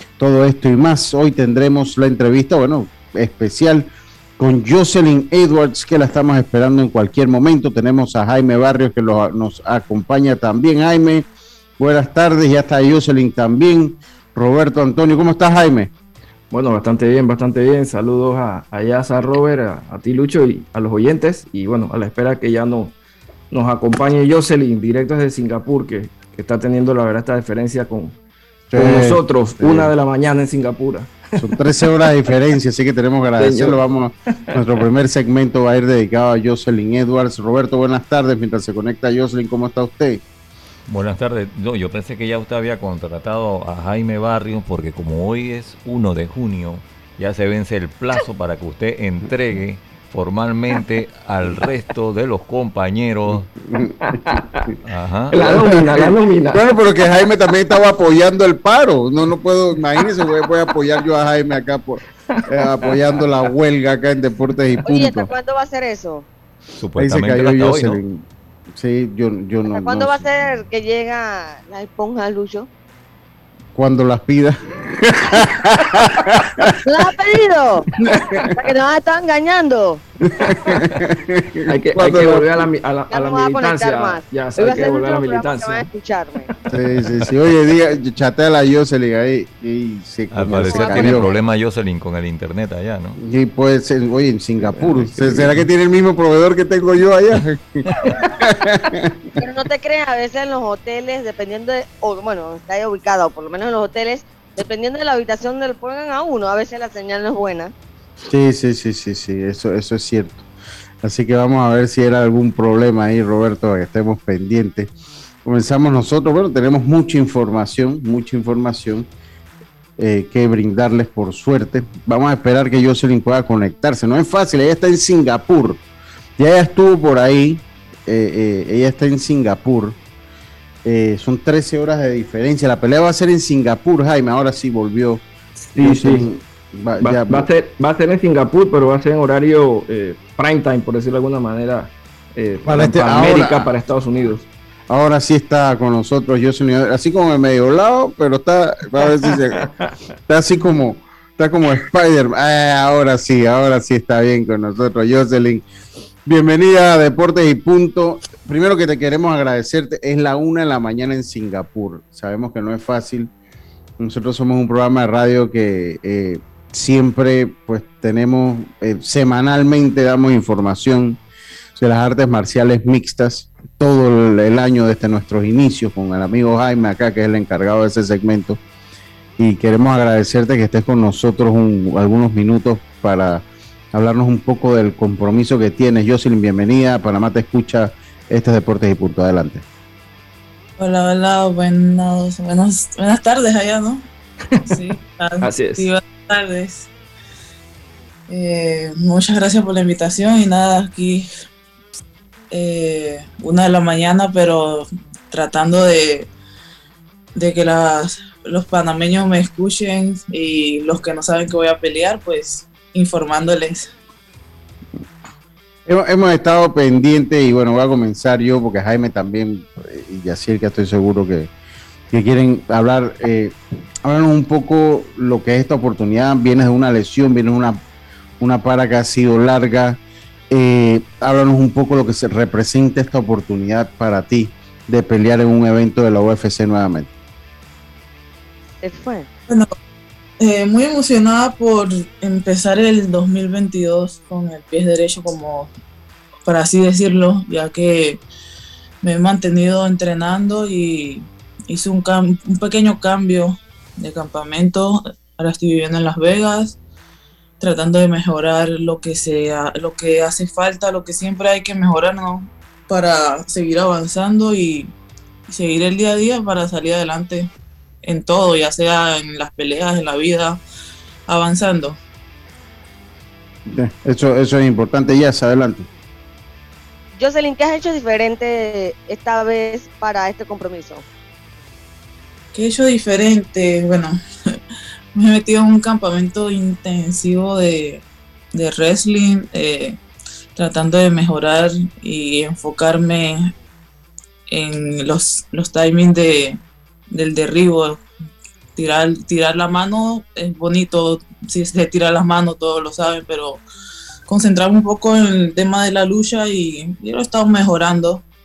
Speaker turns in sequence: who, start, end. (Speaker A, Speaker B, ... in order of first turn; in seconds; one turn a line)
Speaker A: 0.2-11.3
Speaker A: 11.8-15.9
Speaker B: 16.5-22.9
Speaker B: 23.5-28.2
Speaker A: 28.7-29.9
Speaker B: 28.8-31.4
Speaker A: 31.4-40.2
Speaker B: 33.4-33.8
Speaker C: 40.9-53.5
Speaker A: 53.8-54.2
Speaker B: 53.8-54.7
Speaker C: 54.8-55.3
Speaker B: 55.3-56.7
Speaker A: 55.3-65.3
Speaker B: 60.0-60.5
Speaker B: 62.3-63.2
Speaker D: 64.9-66.3
Speaker C: 66.8-68.0
Speaker A: 67.0-70.2
Speaker D: 69.7-72.7
Speaker A: 73.8-76.7
Speaker D: 76.8-77.9
Speaker A: 78.0-78.5
Speaker D: 78.5-80.0
Speaker A: 80.4-82.7
Speaker B: 81.7-85.9
Speaker D: 83.1-86.5
Speaker A: 86.7-91.3
Speaker B: 87.0-87.3
Speaker C: 90.3-93.2
Speaker D: 90.6-91.4
Speaker A: 93.2-97.9
Speaker A: 98.4-99.3
Speaker D: 99.4-107.7
Speaker A: 108.3-110.5
Speaker A: 111.0-114.9
Speaker A: 115.5-119.1
Speaker A: 120.0-125.8
Speaker A: 126.4-130.0
Speaker A: 130.8-135.2
Speaker B: 135.6-136.3
Speaker A: 135.8-137.5
Speaker B: 137.0-144.5
Speaker A: 142.6-143.7
Speaker A: 144.9-149.7
Speaker B: 149.3-149.9
Speaker A: 150.3-155.7
Speaker A: 156.2-163.3
Speaker A: 164.0-171.2
Speaker A: 171.8-178.6
Speaker A: 179.4-189.6
Speaker E: 190.8-194.0
Speaker B: 194.5-194.8
Speaker E: 194.7-196.9
Speaker B: 195.4-195.9
Speaker E: 198.3-201.3
Speaker E: 202.5-206.3
Speaker E: 207.4-213.9
Speaker A: 215.9-221.5
Speaker A: 222.1-227.8
Speaker A: 228.4-230.0
Speaker A: 230.5-237.1
Speaker D: 238.8-239.3
Speaker E: 240.4-245.7
Speaker E: 246.5-248.2
Speaker E: 249.0-256.8
Speaker E: 257.6-264.9
Speaker E: 265.5-267.5
Speaker E: 268.0-270.6
Speaker E: 271.3-272.0
Speaker A: 273.7-275.9
Speaker D: 277.1-281.1
Speaker E: 282.5-284.1
Speaker E: 285.2-290.0
Speaker E: 290.6-293.5
Speaker E: 294.5-296.6
Speaker E: 297.1-298.0
Speaker E: 298.8-303.6
Speaker E: 304.3-308.2